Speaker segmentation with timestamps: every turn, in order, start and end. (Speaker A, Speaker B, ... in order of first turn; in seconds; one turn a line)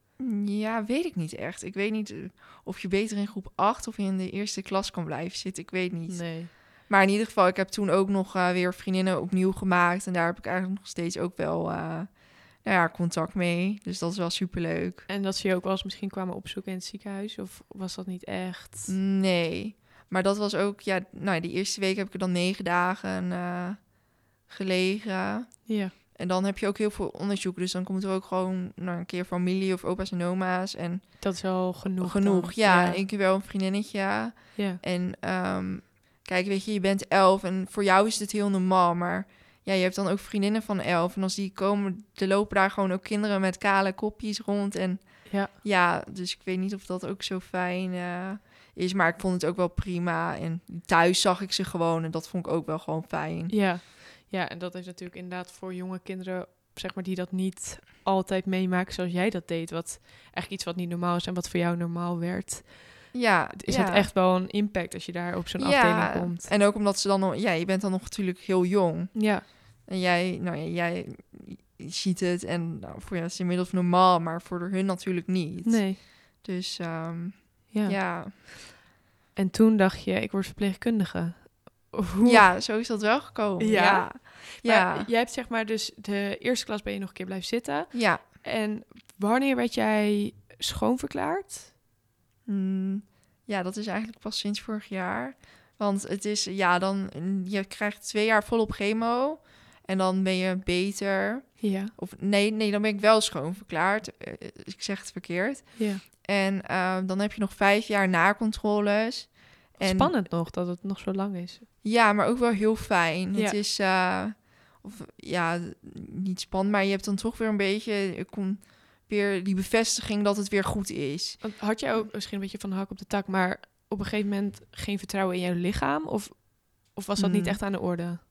Speaker A: 0.2-15.1
Speaker B: 6.1-6.5
Speaker B: 15.1-18.9
Speaker A: 18.9-53.6
Speaker B: 25.6-25.9
Speaker B: 31.2-33.0
Speaker B: 34.5-34.8
Speaker B: 45.2-45.5
Speaker B: 53.5-66.5
Speaker A: 63.1-64.1
Speaker A: 65.6-78.3
Speaker B: 69.1-69.5
Speaker B: 75.6-76.0
Speaker B: 77.7-78.5
Speaker B: 79.3-82.5
Speaker A: 82.2-85.1
Speaker B: 83.6-91.7
Speaker A: 87.9-88.2
Speaker A: 92.5-110.1
Speaker B: 101.6-101.9
Speaker B: 105.8-106.0
Speaker B: 109.8-111.7
Speaker A: 111.8-122.1
Speaker B: 121.4-128.2
Speaker A: 127.2-127.6